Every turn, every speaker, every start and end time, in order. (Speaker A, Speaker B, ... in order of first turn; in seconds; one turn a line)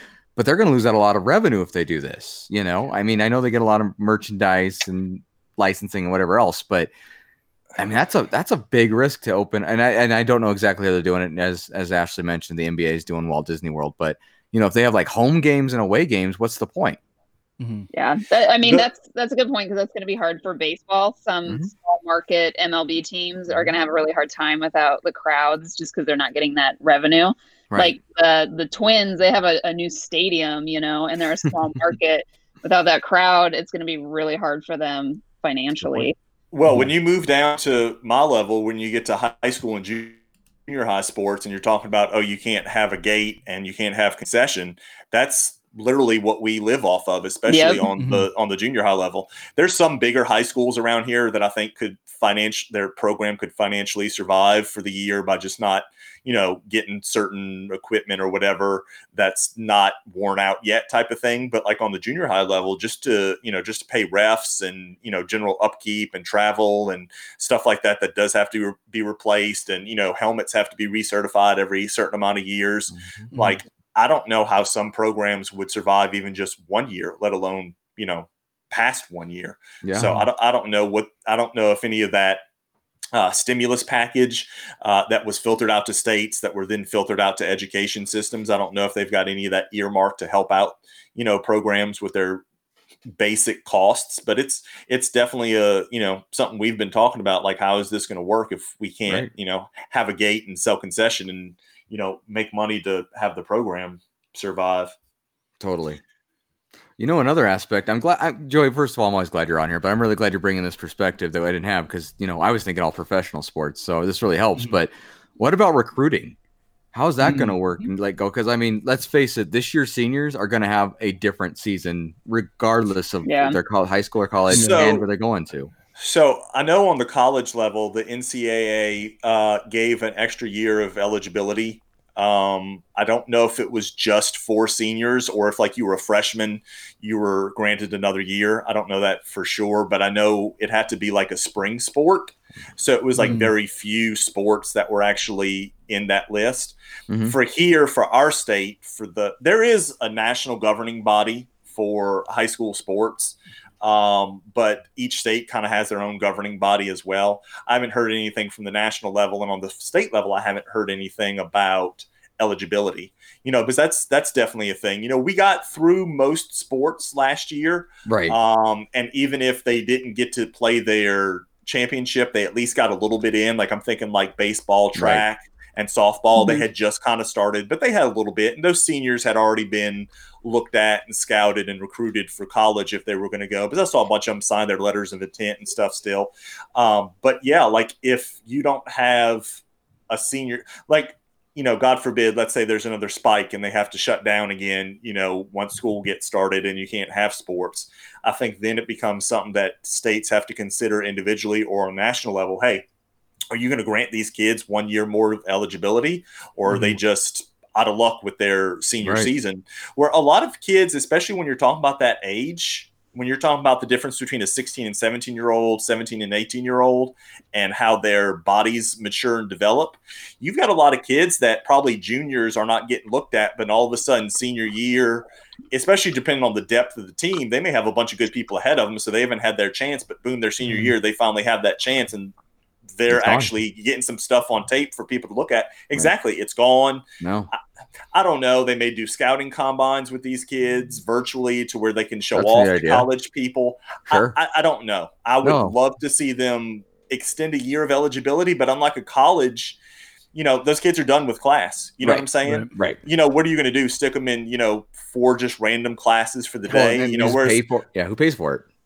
Speaker A: 0.4-6.9
Speaker A: 7.8-17.0
Speaker B: 17.6-17.9
Speaker C: 17.9-36.1
Speaker A: 27.7-28.0
Speaker D: 36.5-82.4
Speaker C: 47.5-47.9
Speaker B: 48.0-48.3
Speaker A: 73.0-73.3
Speaker B: 73.3-73.6
Speaker A: 79.8-80.2
Speaker D: 83.1-92.4
Speaker D: 93.1-105.0
Speaker A: 105.6-106.0
Speaker A: 107.0-116.4
Speaker A: 116.9-125.7
Speaker B: 117.2-117.6
Speaker C: 123.2-123.6
Speaker D: 124.5-125.1
Speaker B: 124.5-124.9
Speaker D: 126.0-189.6
Speaker B: 143.2-143.5
Speaker A: 147.1-147.4
Speaker A: 168.1-168.4
Speaker A: 174.9-175.2
Speaker C: 176.4-176.6
Speaker D: 190.1-202.9
Speaker D: 203.5-232.3
Speaker A: 209.0-209.3
Speaker D: 233.0-237.6
Speaker A: 233.1-233.5
Speaker A: 237.2-237.5
Speaker D: 238.1-249.8
Speaker A: 242.3-243.1
Speaker A: 244.1-244.4
Speaker A: 245.4-245.8
Speaker D: 250.3-257.6
Speaker A: 252.0-253.0
Speaker A: 256.7-258.7